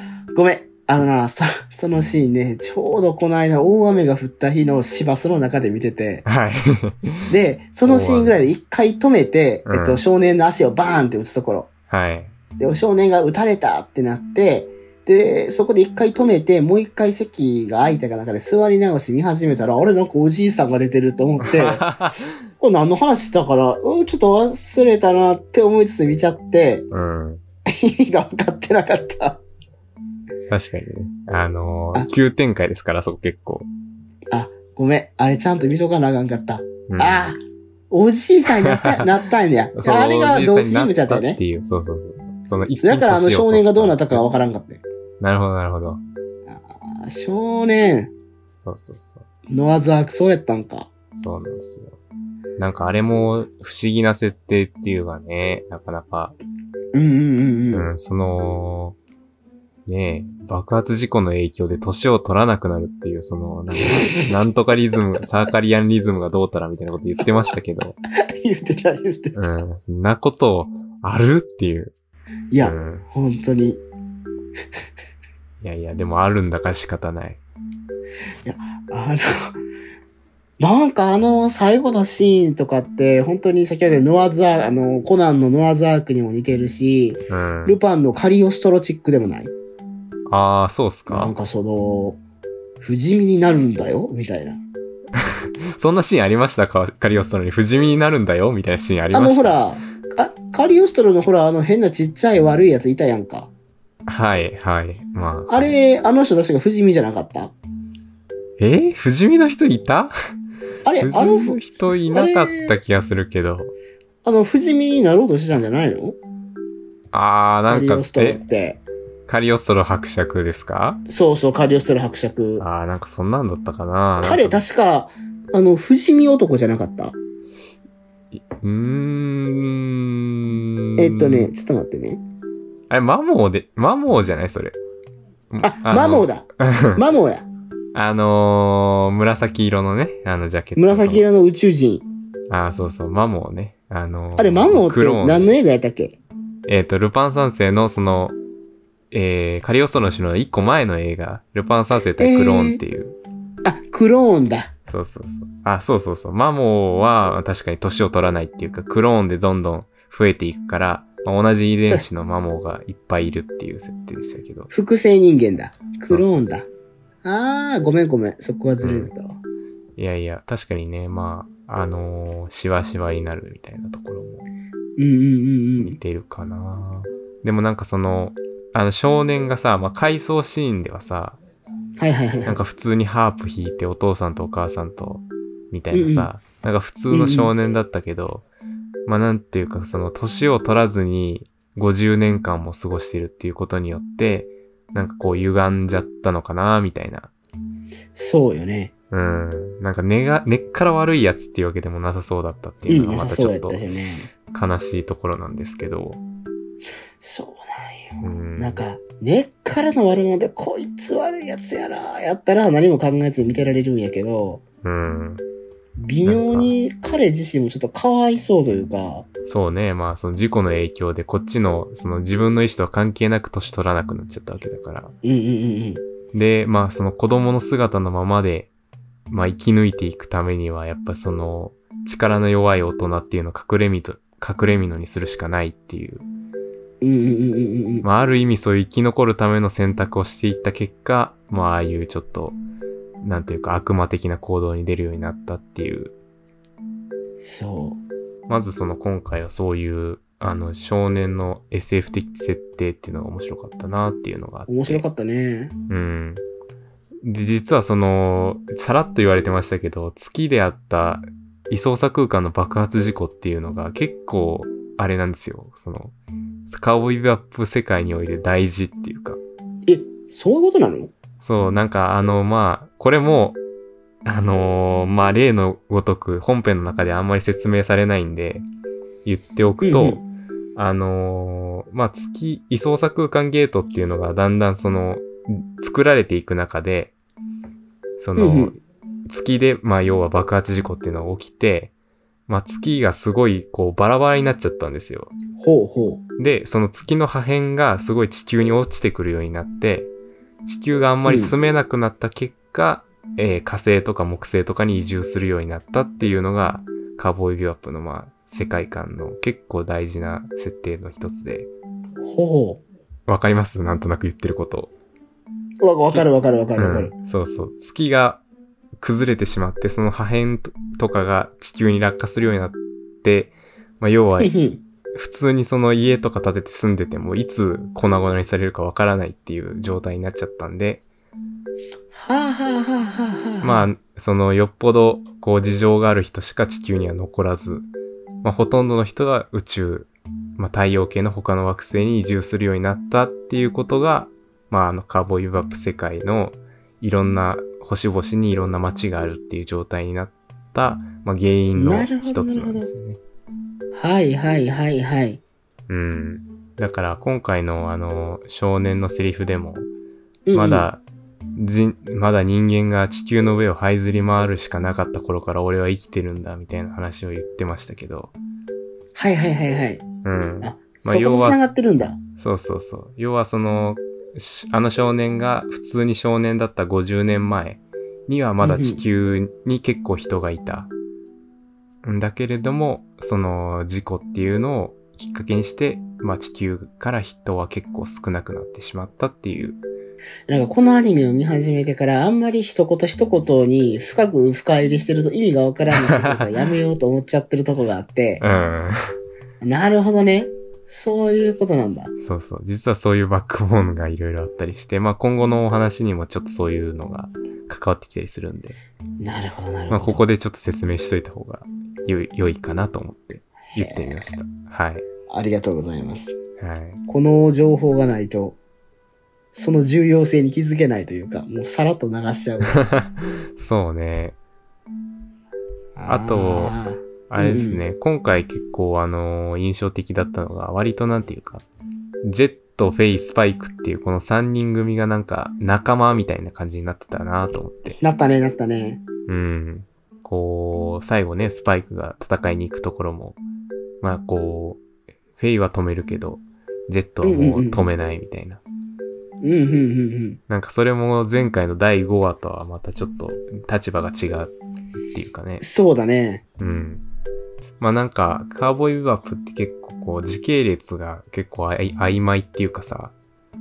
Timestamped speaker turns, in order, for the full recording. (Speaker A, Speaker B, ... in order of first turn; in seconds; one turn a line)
Speaker A: 0.3-6.2
Speaker B: 6.2-7.3
Speaker A: 7.3-11.7
Speaker B: 7.8-8.4
Speaker B: 9.7-10.0
Speaker B: 11.9-12.3
Speaker A: 12.6-21.9
Speaker B: 21.4-22.3
Speaker A: 22.6-26.9
Speaker B: 26.9-27.4
Speaker A: 27.7-29.4
Speaker B: 30.5-33.7
Speaker A: 34.3-37.4
Speaker B: 36.9-37.3
Speaker A: 37.9-41.4
Speaker B: 38.6-39.1
Speaker B: 39.8-44.2
Speaker A: 42.8-44.8
Speaker B: 45.2-46.0
Speaker A: 46.5-48.1
Speaker B: 48.6-49.3
Speaker A: 49.5-50.9
Speaker B: 51.1-52.0
Speaker B: 52.6-56.4
Speaker A: 56.9-57.9
Speaker B: 57.7-59.0
Speaker B: 59.9-68.0
Speaker A: 63.8-64.5
Speaker A: 68.2-69.5
Speaker B: 69.3-71.9
Speaker A: 72.5-73.8
Speaker B: 72.6-73.0
Speaker B: 75.6-77.4
Speaker A: 78.4-79.5
Speaker A: 80.6-89.5
Speaker B: 87.3-87.8
Speaker B: 90.3-91.3
Speaker A: 91.1-92.2
Speaker A: 92.8-94.6
Speaker B: 95.2-99.6
Speaker A: 99.1-103.5
Speaker B: 104.1-105.7
Speaker A: 105.5-107.5
Speaker B: 108.6-110.1
Speaker A: 110.9-112.8
Speaker B: 111.0-113.7
Speaker A: 114.2-116.2
Speaker B: 117.1-118.4
Speaker A: 117.7-118.8
Speaker B: 119.3-121.0
Speaker A: 121.1-122.6
Speaker B: 122.6-124.6
Speaker A: 124.2-127.1
Speaker B: 128.3-131.5
Speaker A: 131.0-132.2
Speaker B: 132.9-134.8
Speaker B: 135.5-137.0
Speaker A: 135.6-137.5
Speaker B: 137.9-141.2
Speaker A: 140.8-142.0
Speaker B: 142.5-145.5
Speaker A: 144.4-146.2
Speaker B: 146.7-148.4
Speaker B: 149.1-153.2
Speaker A: 152.2-152.8
Speaker A: 153.6-154.7
Speaker B: 154.9-164.7
Speaker A: 164.7-166.7
Speaker B: 166.1-166.5
Speaker A: 167.2-169.4
Speaker B: 168.8-169.1
Speaker B: 170.0-174.4
Speaker A: 175.0-176.0
Speaker B: 175.8-181.4
Speaker A: 182.0-182.6
Speaker B: 182.5-188.5
Speaker A: 185.9-186.3
Speaker A: 187.1-187.5
Speaker B: 189.1-197.3
Speaker A: 198.1-198.9
Speaker B: 199.1-203.8
Speaker A: 202.9-204.3
Speaker B: 204.5-206.2
Speaker A: 207.2-214.6
Speaker B: 208.2-208.8
Speaker B: 214.8-215.4
Speaker A: 216.0-219.3
Speaker B: 216.2-216.7
Speaker B: 219.4-225.1
Speaker A: 225.2-226.0
Speaker B: 226.3-228.7
Speaker B: 229.3-236.2
Speaker A: 237.0-238.1
Speaker B: 238.0-242.6
Speaker B: 243.2-246.1
Speaker A: 247.4-248.0
Speaker B: 248.5-255.0
Speaker A: 254.7-255.7
Speaker B: 255.9-256.4
Speaker B: 257.2-266.1
Speaker B: 266.7-269.4
Speaker A: 269.9-271.1
Speaker B: 271.4-273.6
Speaker B: 274.2-278.6
Speaker B: 279.2-280.2
Speaker A: 279.8-280.2
Speaker B: 280.8-287.1
Speaker B: 288.2-291.9
Speaker A: 288.4-288.8
Speaker B: 292.5-295.3
Speaker A: 295.6-296.2
Speaker B: 296.4-300.1
Speaker B: 300.6-311.7
Speaker A: 301.2-301.5
Speaker A: 312.2-312.8
Speaker B: 313.3-314.9
Speaker A: 315.8-317.1
Speaker B: 316.1-318.4
Speaker B: 319.0-324.5
Speaker A: 324.4-324.8
Speaker B: 325.1-331.0
Speaker A: 332.1-333.9
Speaker B: 333.6-337.9
Speaker B: 338.4-353.2
Speaker A: 351.8-352.9
Speaker A: 353.9-355.4
Speaker B: 355.9-359.9
Speaker A: 360.5-360.9
Speaker B: 360.5-361.0
Speaker B: 361.5-368.4
Speaker A: 369.1-370.0
Speaker B: 370.2-371.7
Speaker A: 370.6-372.2
Speaker B: 372.4-380.9
Speaker A: 378.6-379.0
Speaker B: 382.0-389.8
Speaker A: 390.5-398.4
Speaker B: 395.9-396.5
Speaker B: 398.4-399.0
Speaker A: 399.6-402.1
Speaker B: 402.2-408.8
Speaker A: 409.2-410.2
Speaker B: 409.9-415.1
Speaker A: 413.7-414.3
Speaker A: 415.3-416.4
Speaker B: 416.6-417.0
Speaker A: 417.1-418.6
Speaker A: 419.5-422.8
Speaker B: 422.7-424.4
Speaker A: 425.9-427.8
Speaker B: 426.1-426.8
Speaker B: 427.3-431.6
Speaker B: 432.2-438.0
Speaker A: 437.9-439.0
Speaker B: 439.3-443.4
Speaker B: 444.0-444.8
Speaker B: 445.4-448.6
Speaker A: 447.2-447.9
Speaker A: 449.4-450.4
Speaker B: 450.5-454.5
Speaker B: 455.1-455.6
Speaker A: 455.6-456.4
Speaker B: 456.6-457.0
Speaker B: 457.8-463.1